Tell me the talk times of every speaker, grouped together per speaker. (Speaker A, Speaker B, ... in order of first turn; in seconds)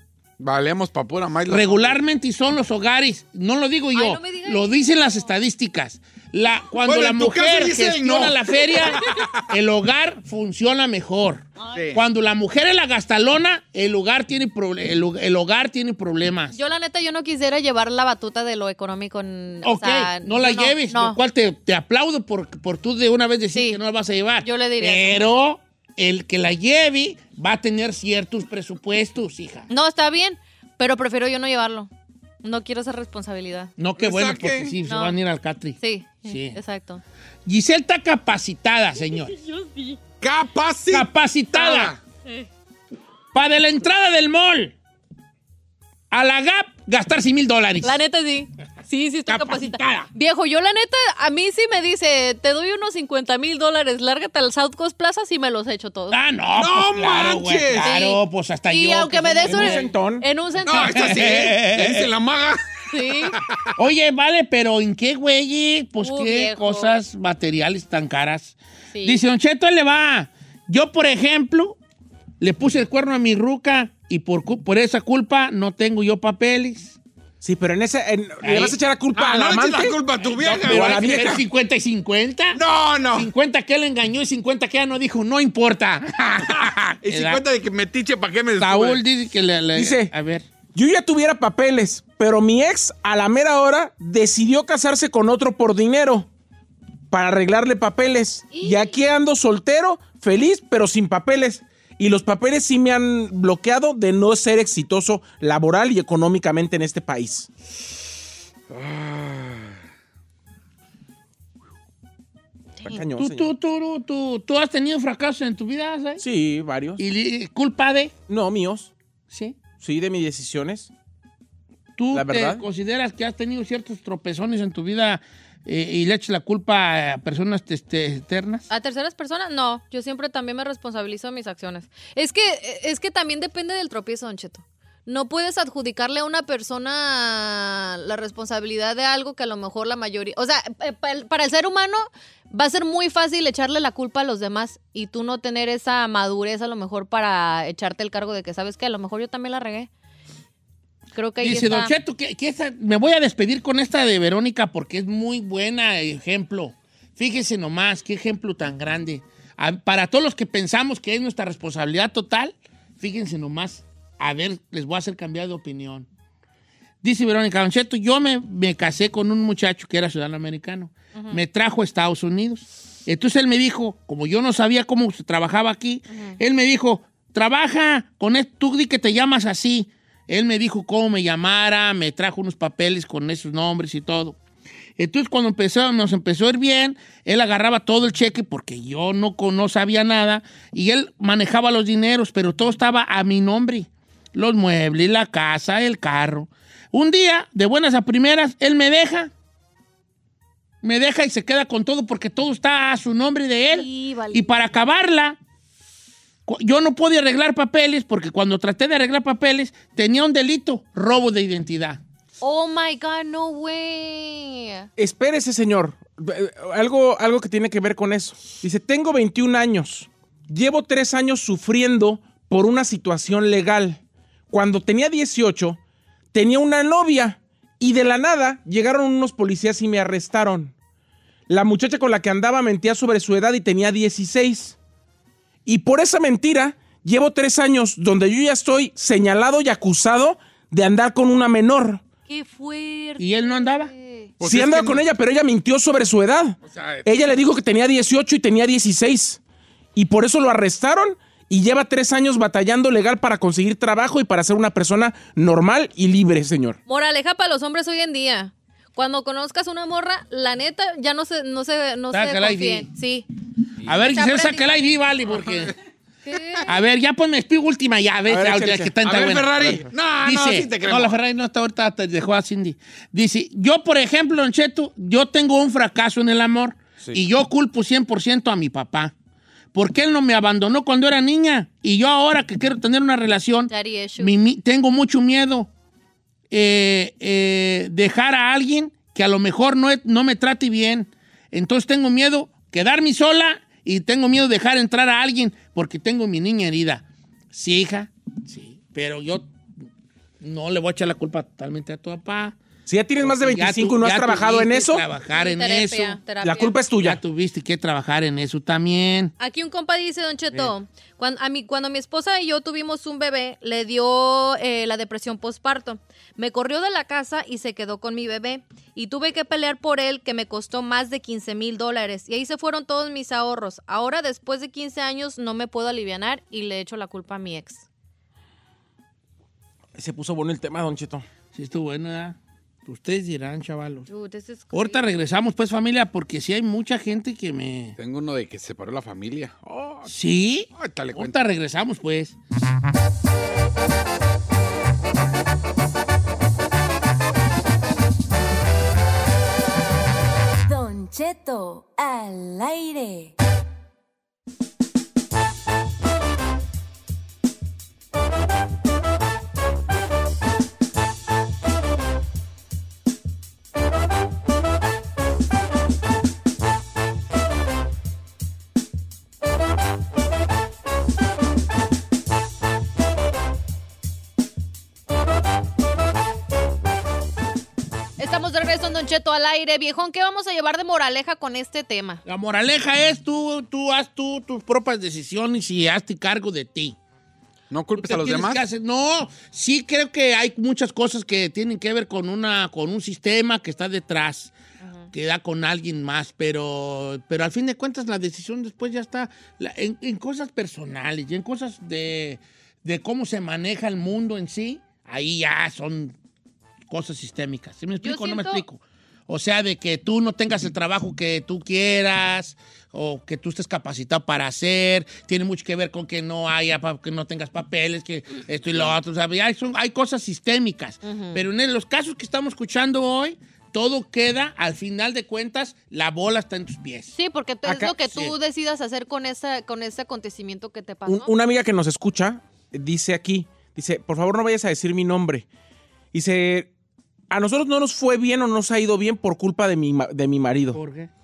Speaker A: 0.4-2.0, 6.8-9.4, 11.7-12.0, 34.0-34.8, 40.2-42.0, 56.6-57.9, 60.6-63.5, 79.1-81.5, 82.5-83.3, 86.6-89.0, 108.7-109.8, 244.4-245.0, 246.6-247.3, 263.8-264.1, 269.0-271.2, 338.0-340.1, 340.7-341.4, 387.7-388.6, 418.7-419.0
Speaker B: 1.5-16.6, 19.6-29.7, 33.8-36.6, 37.5-39.4, 40.9-41.9, 43.3-44.7, 46.1-48.0, 49.3-50.1, 56.1-59.9, 60.8-62.1, 63.8-71.8, 72.4-77.0, 78.4-78.8, 80.2-82.6, 83.1-87.4, 88.6-90.5, 113.1-116.2, 117.0-118.2, 119.3-119.6, 122.0-128.7, 151.4-166.1, 167.0-184.4, 185.0-199.3, 200.8-205.4, 206.5-212.0, 243.2-243.9, 262.1-262.9, 263.9-265.8, 266.6-269.7, 270.2-279.1, 279.7-285.7, 286.5-299.5, 300.4-302.6, 303.2-306.2, 307.0-309.3, 331.5-334.1, 334.7-338.0, 340.1-342.4, 382.3-387.0, 388.0-394.5, 395.1-406.1, 406.9-427.2, 440.7-441.1
Speaker C: 3.9-5.3, 16.5-21.2, 24.4-25.2, 29.7-31.9, 32.4-33.7, 34.9-35.2, 35.8-37.0, 39.4-40.0, 47.8-56.2, 57.8-61.3, 62.9-63.4, 66.0-67.0, 68.9-69.2, 98.5-99.0, 128.7-149.9, 151.1-151.9, 171.2-171.4, 176.1-176.4, 203.7-204.5, 212.4-214.9, 242.3-244.3, 256.9-263.3, 264.1-264.8, 266.3-266.7, 283.7-284.3, 305.3-306.8, 309.4-327.9, 334.1-335.0, 378.2-382.2, 394.8-395.1, 408.0-408.6, 421.0-421.4, 427.1-431.3
Speaker D: 59.5-60.2, 77.4-80.0, 80.6-81.4, 89.8-90.1, 90.7-96.3, 97.1-107.5, 112.8-113.5, 116.2-117.0, 118.3-118.9, 119.8-120.9, 122.1-122.6, 215.0-225.8, 226.3-230.7, 231.5-234.8, 235.7-242.0, 244.4-249.4, 249.9-256.8, 268.3-269.0, 302.9-305.1, 306.4-307.2, 329.9-331.3, 427.7-428.0, 431.1-435.5, 436.1-436.7, 437.3-440.8
Speaker E: 350.6-353.3